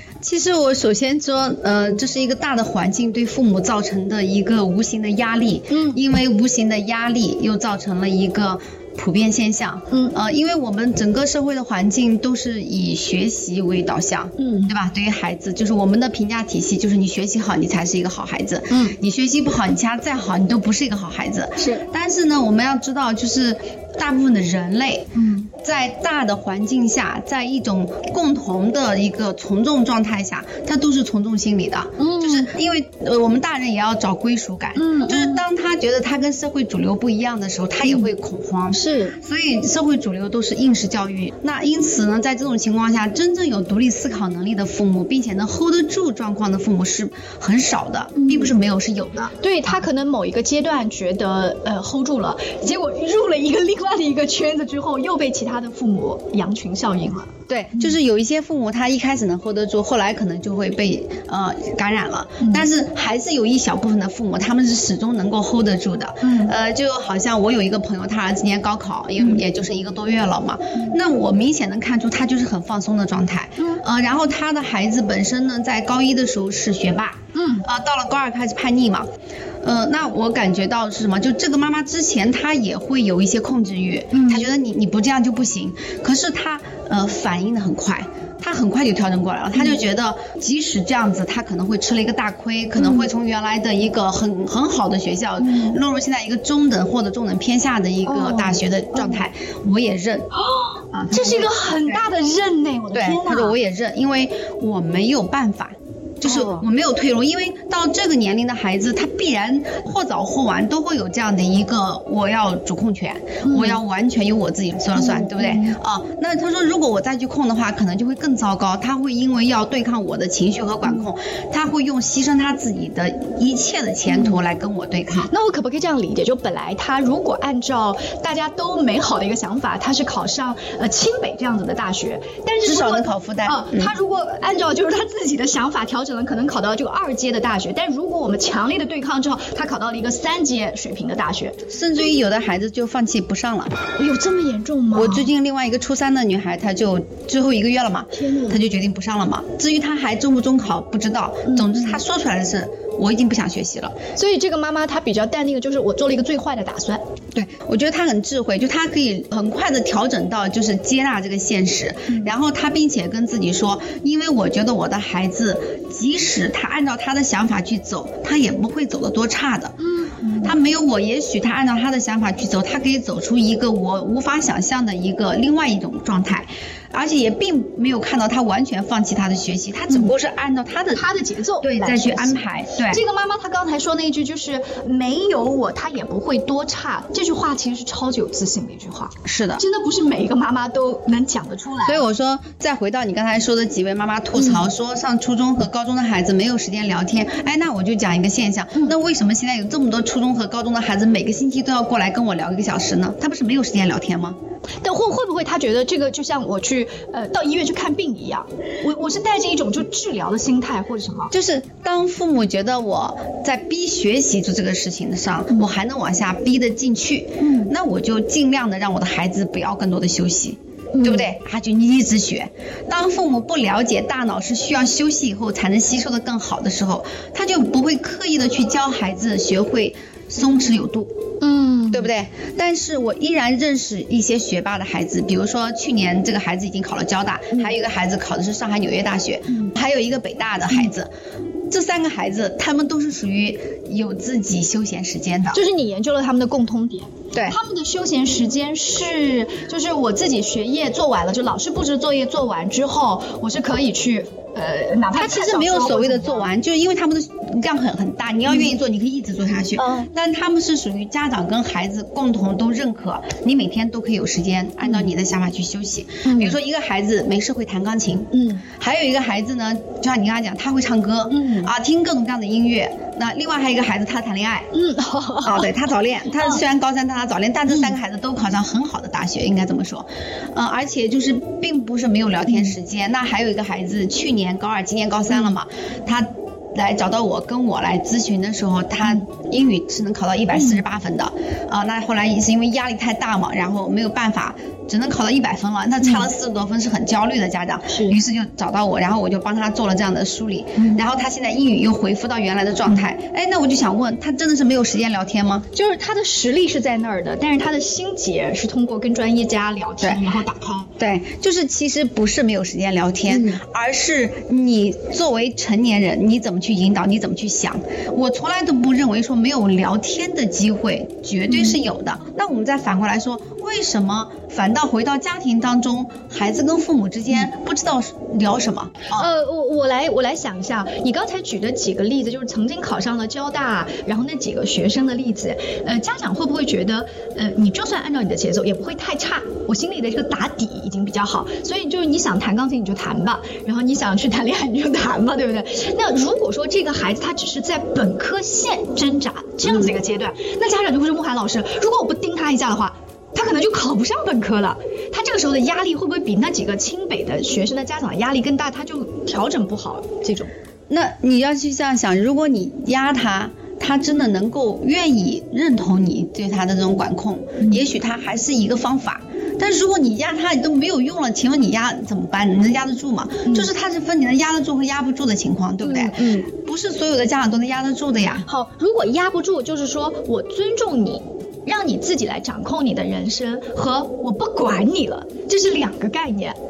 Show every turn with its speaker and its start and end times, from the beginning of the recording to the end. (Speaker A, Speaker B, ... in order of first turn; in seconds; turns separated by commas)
Speaker A: 0.2-49.3, Speaker B: 5.7-6.0, Speaker B: 9.9-10.2, Speaker B: 14.4-14.7, Speaker B: 25.1-25.5, Speaker B: 32.0-32.5, Speaker B: 34.8-35.4, Speaker B: 38.7-39.1, Speaker B: 48.2-48.5, Speaker B: 49.4-57.9, Speaker A: 57.5-79.1, Speaker B: 66.2-66.5, Speaker B: 73.6-73.8, Speaker B: 77.3-77.7, Speaker A: 79.6-100.3, Speaker B: 84.1-84.5, Speaker B: 92.8-93.1, Speaker B: 95.4-95.8, Speaker B: 98.0-99.1, Speaker B: 100.4-103.5, Speaker A: 100.9-102.0, Speaker A: 102.9-125.3, Speaker B: 106.2-106.6, Speaker B: 113.4-113.8, Speaker B: 115.0-115.7, Speaker B: 124.1-124.4, Speaker B: 125.3-141.6, Speaker A: 132.6-133.9, Speaker A: 141.7-143.8, Speaker B: 144.0-145.3, Speaker A: 144.9-154.0, Speaker B: 148.2-148.6, Speaker B: 151.5-152.0, Speaker B: 154.2-157.0, Speaker A: 157.3-169.8, Speaker B: 169.8-170.5, Speaker A: 170.4-181.0, Speaker B: 180.9-192.0, Speaker A: 181.6-183.0, Speaker A: 189.2-189.6, Speaker A: 191.8-204.4, Speaker B: 194.3-194.6, Speaker B: 204.8-211.3, Speaker A: 211.3-231.1, Speaker B: 217.4-217.7, Speaker B: 220.9-221.3, Speaker B: 231.4-232.1, Speaker A: 231.9-241.1, Speaker A: 241.7-245.6, Speaker B: 245.5-256.4, Speaker A: 255.1-274.7, Speaker B: 259.8-260.1, Speaker B: 266.2-266.6, Speaker B: 268.3-268.6, Speaker B: 271.3-271.7, Speaker B: 274.7-275.7, Speaker A: 275.4-305.7, Speaker B: 277.7-277.9, Speaker B: 290.5-290.8, Speaker B: 296.0-296.3, Speaker B: 297.9-298.2, Speaker B: 300.8-301.0, Speaker B: 305.7-310.9, Speaker A: 311.0-329.3, Speaker B: 313.3-313.6, Speaker B: 321.5-321.8, Speaker B: 329.1-360.5, Speaker A: 349.6-349.9, Speaker A: 360.9-378.4, Speaker B: 375.8-376.5, Speaker B: 378.4-386.6